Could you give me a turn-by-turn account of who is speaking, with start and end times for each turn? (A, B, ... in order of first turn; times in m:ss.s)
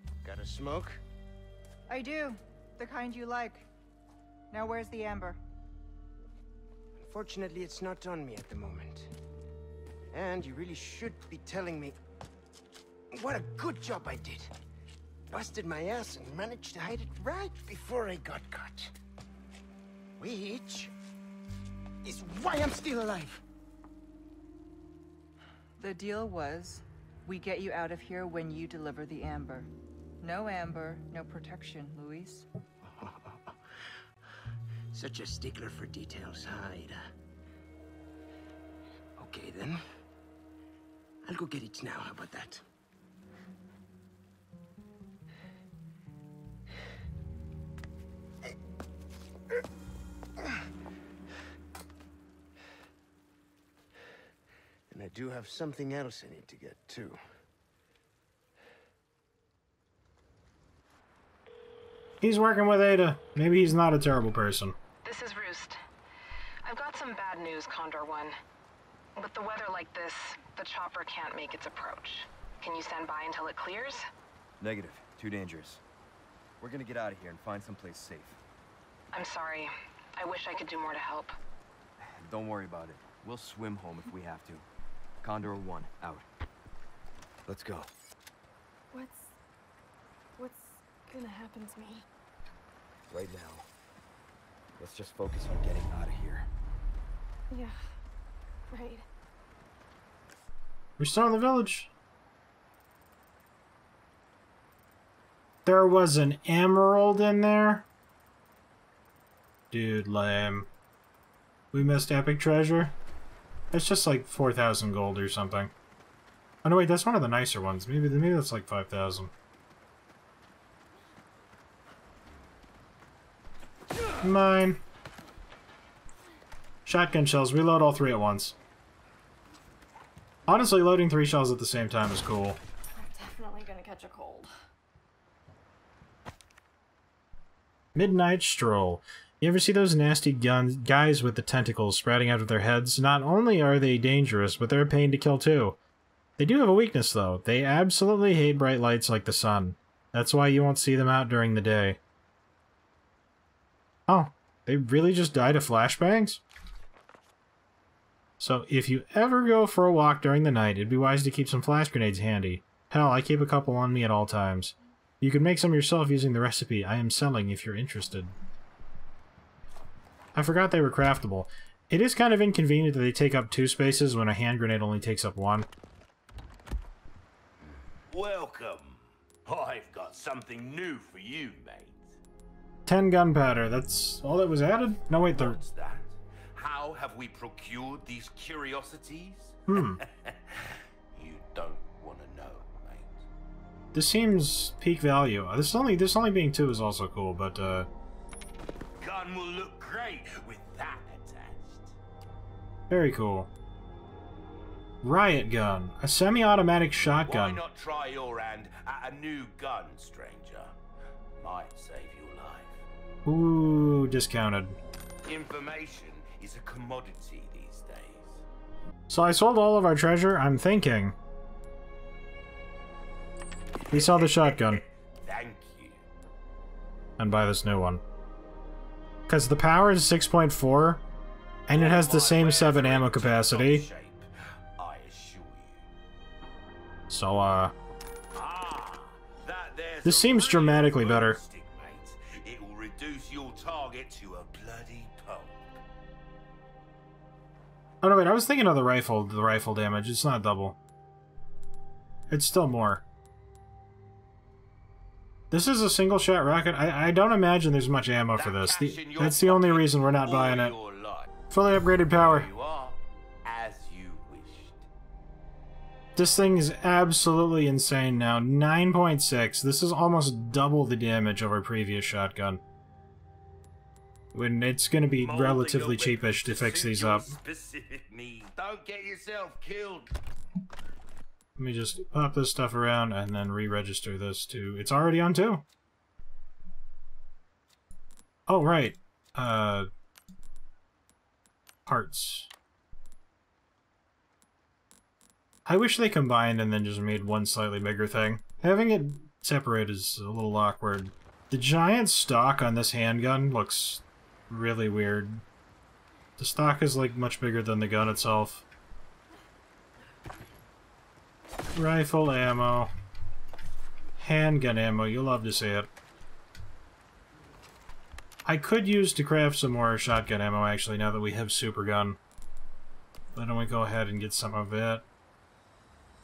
0:00.2-0:01.0 A
0:01.9-0:03.7 B
0:04.5-0:05.4 B
0:07.0-0:09.1 A
0:10.1-0:12.0 A
0:13.1-0:14.6 A
0:15.3-0:18.9 A
0:20.2-0:20.9 A
0:22.0-0:23.4 A
0:25.8-0:29.7 B
0:30.2-0:32.5 B
0:32.9-0:33.5 A
0:34.9-0:37.0 A
0:39.2-0:39.8 A
0:41.2-0:42.6 A
0:54.9-0:57.2 A
1:02.2-1:04.8 C
1:05.0-1:05.8 D
1:06.6-1:08.3 D
1:09.2-1:14.0 D
1:14.6-1:15.8 E
1:16.6-1:18.4 E
1:19.1-1:21.3 D
1:22.0-1:24.7 E
1:25.2-1:26.3 E
1:27.5-1:27.9 E
1:28.9-1:29.3 F
1:30.4-1:32.0 F
1:33.1-1:33.7 E
1:34.8-1:36.5 E
1:37.5-1:37.8 F
1:38.7-1:39.0 F
1:41.0-1:41.9 C
1:45.7-1:47.9 C
1:49.7-1:50.7 C
1:51.7-1:53.0 C
1:53.7-1:55.7 C
1:56.6-1:59.3 C
2:04.2-2:04.8 C
2:06.9-2:08.6 C
2:10.5-2:12.6 C
2:18.0-2:25.8 C
2:26.4-2:32.0 C
2:34.1-2:36.4 C
2:38.4-2:48.3 C
2:50.4-2:55.7 C
2:58.1-3:02.2 G
3:02.9-3:05.6 C
3:05.2-3:13.2 G
3:09.7-3:10.0 C
3:13.9-3:17.9 C
3:19.0-3:21.9 G
3:22.9-3:23.5 C
3:25.0-3:27.6 C
3:27.2-3:30.7 G
3:31.4-3:32.8 G
3:33.2-3:34.8 C
3:35.3-3:38.4 G
3:39.1-3:41.2 C
3:43.9-3:46.0 G
3:43.9-3:44.8 C
3:47.2-3:48.0 C
3:49.3-3:51.0 C
3:51.7-3:53.9 C
3:51.7-3:54.3 G
3:54.8-3:55.8 G
3:57.1-3:57.7 C
3:58.4-4:05.6 G
4:00.0-4:01.4 C
4:08.0-4:10.8 C
4:12.3-4:13.0 C
4:15.5-4:20.8 C
4:18.4-4:21.3 G
4:21.5-4:22.5 C
4:22.1-4:24.9 G
4:26.2-4:32.6 C
4:34.3-4:37.4 C
4:35.2-4:40.1 G
4:41.6-4:45.6 C
4:48.5-4:49.9 C
4:51.9-4:52.5 C
4:55.7-5:05.4 C
5:06.4-5:08.7 C
5:11.8-5:12.9 C
5:14.2-5:15.9 C
5:18.4-5:22.2 C
5:23.4-5:25.0 C